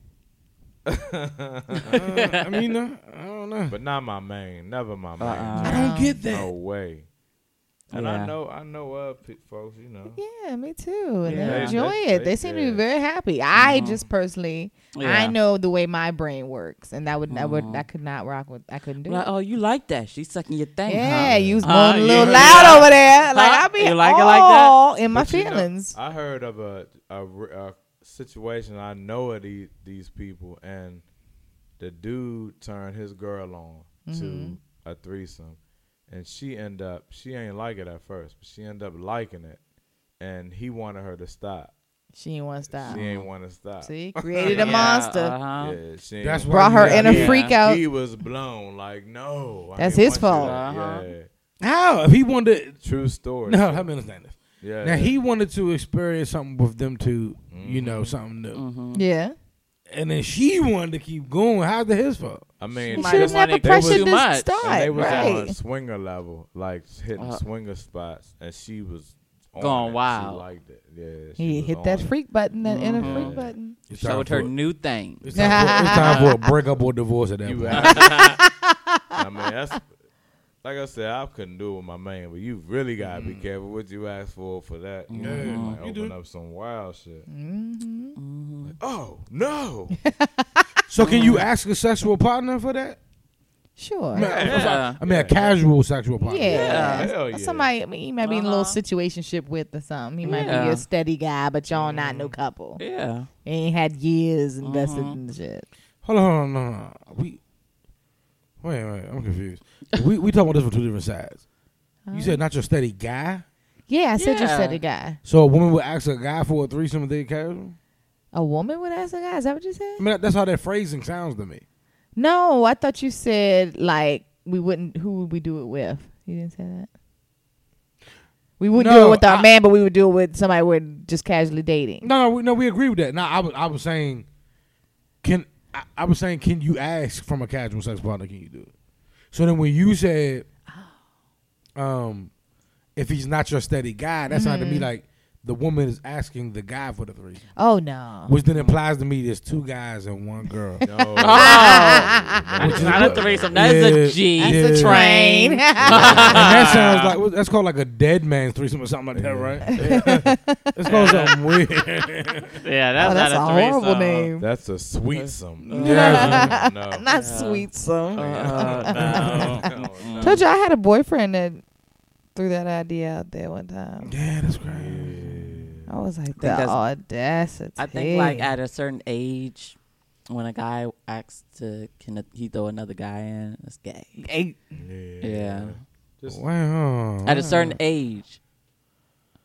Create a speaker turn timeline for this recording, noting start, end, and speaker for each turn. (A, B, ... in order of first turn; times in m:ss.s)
0:00.9-0:02.0 A
0:01.9-0:03.8 B
0:02.0-0:02.3 C
0:03.7-0:07.1 A
0:05.2-0:06.0 C
0:05.6-0:06.2 D
0:05.6-0:06.5 B
0:07.9-0:10.2 A
0:07.9-0:08.3 C
0:10.2-0:19.3 D
0:11.2-0:11.8 C
0:11.3-0:12.8 A
0:13.5-0:14.1 A
0:13.6-0:14.0 C
0:15.0-0:15.4 C
0:17.3-0:17.8 C
0:19.0-0:24.8 C
0:20.9-0:26.0 D
0:21.1-0:21.6 A
0:21.2-0:21.6 B
0:22.2-0:22.8 A
0:22.2-0:22.7 B
0:25.1-0:31.0 A
0:31.8-0:39.6 A
0:34.1-0:34.6 D
0:40.2-0:41.7 A
0:42.2-0:43.0 D
0:42.7-0:51.3 A
0:42.8-0:43.3 C
0:43.8-0:45.4 D
0:44.4-0:45.8 C
0:46.2-0:47.4 B
0:46.5-0:47.8 D
0:46.8-0:47.6 C
0:49.8-0:50.6 D
0:50.3-0:51.1 C
0:51.6-0:52.8 B
0:52.8-0:53.9 A
0:53.5-0:58.6 B
0:54.6-0:55.2 A
0:57.5-0:58.2 A
0:58.5-0:59.0 C
0:58.9-0:59.4 D
0:59.9-1:02.5 B
1:02.6-1:12.1 A
1:02.9-1:05.6 D
1:02.9-1:05.4 C
1:07.2-1:07.4 C
1:09.6-1:10.4 C
1:11.4-1:13.8 D
1:12.6-1:16.4 C
1:12.9-1:13.6 A
1:13.9-1:14.6 B
1:15.2-1:18.0 B
1:15.4-1:16.2 D
1:17.4-1:18.4 A
1:17.7-1:18.4 C
1:17.8-1:19.0 D
1:19.1-1:19.9 A
1:20.6-1:27.3 A
1:23.0-1:23.4 B
1:25.1-1:25.8 C
1:25.2-1:26.2 B
1:27.3-1:28.2 D
1:28.2-1:28.8 C
1:28.7-1:30.0 A
1:30.0-1:31.4 D
1:30.9-1:33.0 B
1:31.0-1:31.4 C
1:33.8-1:34.3 D
1:34.1-1:35.6 A
1:34.1-1:36.7 B
1:34.4-1:35.0 C
1:36.2-1:42.8 D
1:36.4-1:37.7 A
1:36.5-1:37.1 C
1:38.2-1:38.8 C
1:40.2-1:40.7 B
1:40.2-1:40.8 C
1:41.7-1:42.4 A
1:42.8-1:43.3 C
1:43.4-1:45.7 D
1:44.6-1:45.2 C
1:46.0-1:47.4 B
1:48.6-1:51.4 B
1:52.1-1:52.4 D
1:52.1-1:53.4 B
1:53.9-1:55.2 D
1:54.2-1:54.8 C
1:55.2-1:57.8 B
1:58.3-2:00.0 D
2:00.0-2:01.6 B
2:02.2-2:06.9 D
2:08.6-2:12.0 D
2:08.7-2:09.5 B
2:12.0-2:14.3 B
2:15.2-2:18.7 B
2:19.3-2:20.5 B
2:21.8-2:22.3 B
2:23.0-2:27.4 B
2:24.3-2:24.9 D
2:27.6-2:28.4 D
2:28.3-2:30.8 B
2:30.8-2:33.7 A
2:31.2-2:37.2 C
2:31.2-2:32.6 D
2:32.6-2:35.0 B
2:34.4-2:36.3 D
2:35.8-2:36.7 A
2:36.0-2:40.0 B
2:39.1-2:40.4 A
2:39.8-2:40.6 D
2:40.8-2:42.6 B
2:40.9-2:41.4 C
2:42.6-2:44.3 C
2:43.0-2:44.5 D
2:44.4-2:47.1 A
2:45.1-2:46.4 C
2:45.7-2:49.6 D
2:45.8-2:46.5 B
2:47.1-2:50.4 C
2:48.2-2:50.5 A
2:50.2-2:51.6 D
2:52.4-2:54.1 D
2:54.0-2:55.7 B
2:54.7-2:55.9 A
2:55.9-2:58.5 D
2:56.4-2:56.8 C
2:57.8-2:59.8 C
3:00.3-3:04.2 C
3:04.2-3:04.6 D
3:04.8-3:06.4 A
3:05.2-3:05.8 C
3:06.3-3:07.8 B
3:07.2-3:08.4 C